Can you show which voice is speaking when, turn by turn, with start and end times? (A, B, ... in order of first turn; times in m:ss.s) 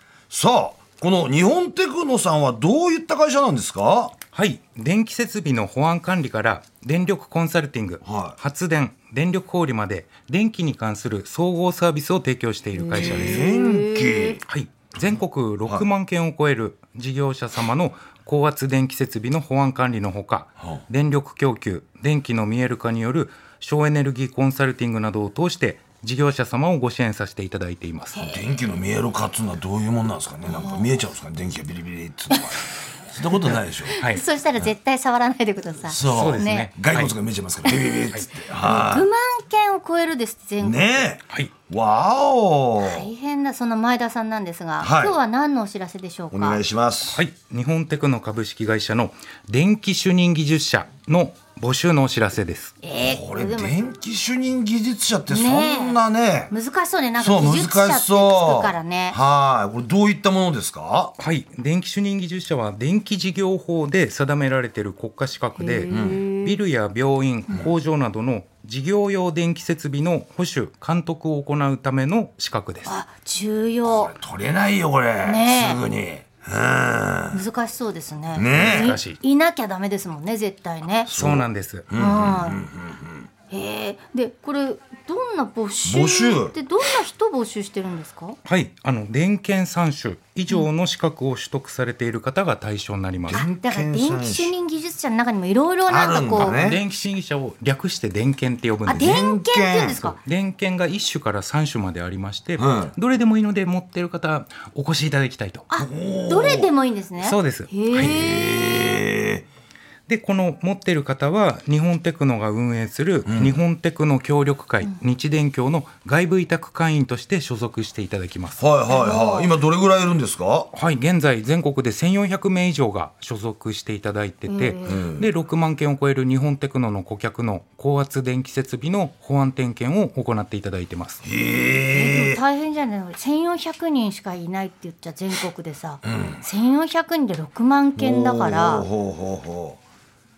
0:00.3-0:04.1 A
0:04.3-0:13.4 B
0:08.0-0:08.4 A
0:12.8-0:14.4 C
0:12.9-0:14.4 A
0:14.4-0:28.2 B
0:15.0-0:15.8 A
0:28.1-0:28.4 C
0:28.2-0:34.0 A
0:30.4-0:30.8 C
0:33.9-0:36.7 C
0:34.0-0:34.2 B
0:35.8-0:39.1 A
0:36.0-0:37.1 B
0:37.6-0:41.0 C
0:40.6-0:43.1 A
0:42.8-0:46.6 C
0:44.8-0:45.2 A
0:46.3-0:47.2 A
0:47.1-0:52.7 B
0:52.8-0:53.8 C
0:53.0-0:56.5 A
0:55.3-0:56.0 C
0:56.5-0:59.2 C
0:57.2-1:01.1 A
1:01.2-1:12.9 B
1:05.6-1:06.6 C
1:05.9-1:06.2 A
1:12.8-1:14.1 C
1:13.8-1:17.4 A
1:15.2-1:15.8 C
1:17.3-1:21.1 C
1:18.3-1:19.0 A
1:18.5-1:19.2 B
1:21.1-1:21.9 B
1:21.1-1:23.3 A
1:22.0-1:22.6 C
1:23.5-1:28.4 C
1:25.8-1:26.6 A
1:28.4-1:33.4 B
1:33.3-1:34.5 A
1:33.3-1:36.6 C
1:35.9-1:36.8 A
1:36.3-1:39.2 B
1:38.9-1:40.0 A
1:38.9-1:40.2 C
1:40.2-1:45.6 B
1:42.6-1:42.9 A
1:45.7-1:49.0 C
1:45.8-1:46.7 A
1:47.2-1:48.2 B
1:47.9-1:49.4 A
1:50.1-1:58.6 B
1:53.2-1:53.6 A
1:58.6-2:00.7 A
1:58.9-1:59.5 C
2:00.7-2:11.2 B
2:04.5-2:05.1 C
2:04.8-2:05.3 A
2:11.2-2:12.4 A
2:11.9-2:18.9 C
2:16.0-2:16.4 A
2:18.0-2:19.8 A